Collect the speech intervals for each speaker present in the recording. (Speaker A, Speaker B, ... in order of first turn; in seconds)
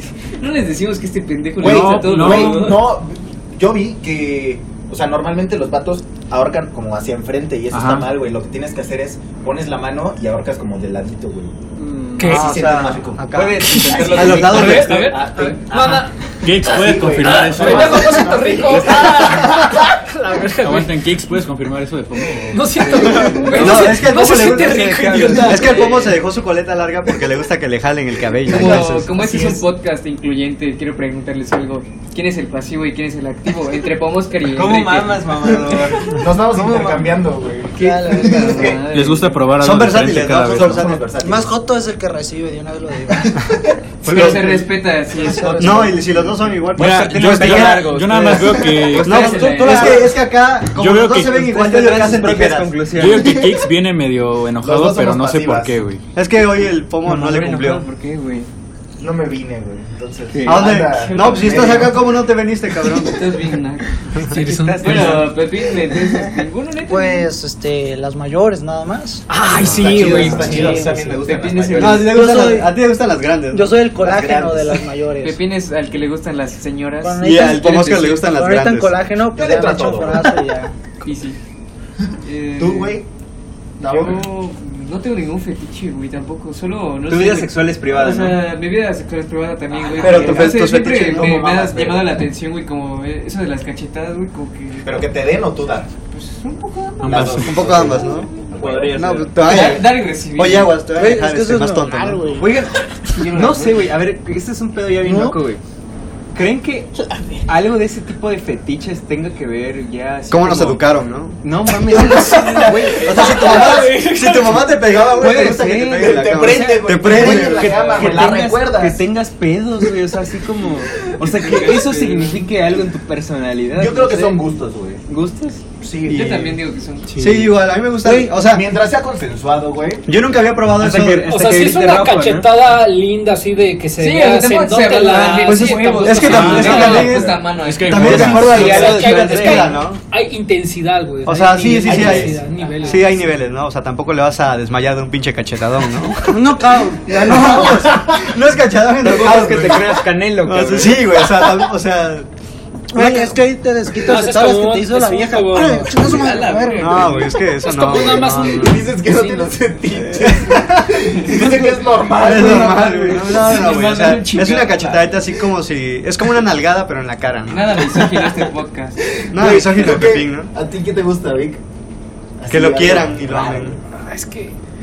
Speaker A: 0.4-2.8, 25.4-26.2, 28.4-35.3, 37.8-39.4, 44.0-46.5, 48.9-50.1, 60.7-61.9, 63.0-67.3, 69.8-72.4, 75.2-77.8, 81.0-81.4, 82.2-83.0, 83.8-95.1, 96.1-97.1, 98.1-98.3, 99.4-100.8, 103.1-103.9, 112.0-113.4, 116.5-118.1, 121.1-122.5, 126.1-127.1, 134.0-138.5, 156.0-157.4, 159.1-159.5, 163.2-165.1, 167.5-169.0
Speaker B: 1.6-11.6, 12.2-16.1, 16.6-19.9, 28.6-29.6, 35.4-38.8, 40.5-41.5, 43.2-43.6, 54.6-55.8, 59.0-62.1, 69.6-72.1, 73.9-74.9, 79.3-80.4, 82.6-83.0, 83.8-84.2, 90.0-92.2, 94.8-95.9, 97.0-99.1, 115.2-119.0, 121.5-121.7, 123.7-125.0, 125.8-126.6, 128.4-130.2, 141.8-142.4, 158.4-163.6, 169.2-171.6, 172.4-173.8
Speaker C: 1.6-2.8, 7.7-8.1, 16.4-18.3, 20.6-23.1, 38.8-40.9, 46.7-49.4, 50.7-51.5, 53.0-56.0, 64.9-65.2, 97.0-97.9, 136.3-137.0, 137.6-138.8
Speaker D: 2.2-2.5, 11.8-15.1, 22.9-25.9, 34.5-37.1, 46.7-50.0, 51.4-53.3, 57.0-58.5, 60.3-60.7, 64.9-65.2, 65.9-66.2, 69.6-71.2, 87.1-88.4, 98.5-99.8, 103.3-105.6, 106.3-106.9, 107.5-113.8, 115.1-124.4, 125.1-125.6, 127.1-127.5, 130.7-132.6, 136.3-137.3, 138.0-139.8, 149.0-151.1
Speaker E: 12.2-12.7, 14.4-16.1, 17.2-20.9, 22.5-25.9, 64.3-65.3, 69.3-70.8, 113.2-114.8, 131.3-137.1, 138.1-143.3, 154.0-156.3, 157.6-158.8, 174.0-174.5
Speaker F: 13.2-15.2, 23.0-29.1, 39.6-41.1, 44.0-44.7, 45.6-47.9, 49.0-52.8, 56.1-57.9, 60.5-63.3, 71.7-73.8, 77.2-79.0, 90.0-91.6, 97.3-98.3, 98.9-102.3, 110.3-111.4, 113.0-118.0, 126.1-126.5, 127.2-128.7, 130.1-131.3, 135.4-140.0, 141.2-152.3, 152.9-153.4, 156.8-158.8, 160.0-168.1, 169.3-170.5, 172.5-173.8
Speaker G: 37.8-38.8, 41.1-43.4, 45.2-46.0, 66.9-69.3, 70.5-71.0, 72.0-72.8, 73.5-75.4, 77.0-80.7, 100.9-102.7, 105.0-105.4, 128.0-128.4, 146.3-148.1, 152.9-157.2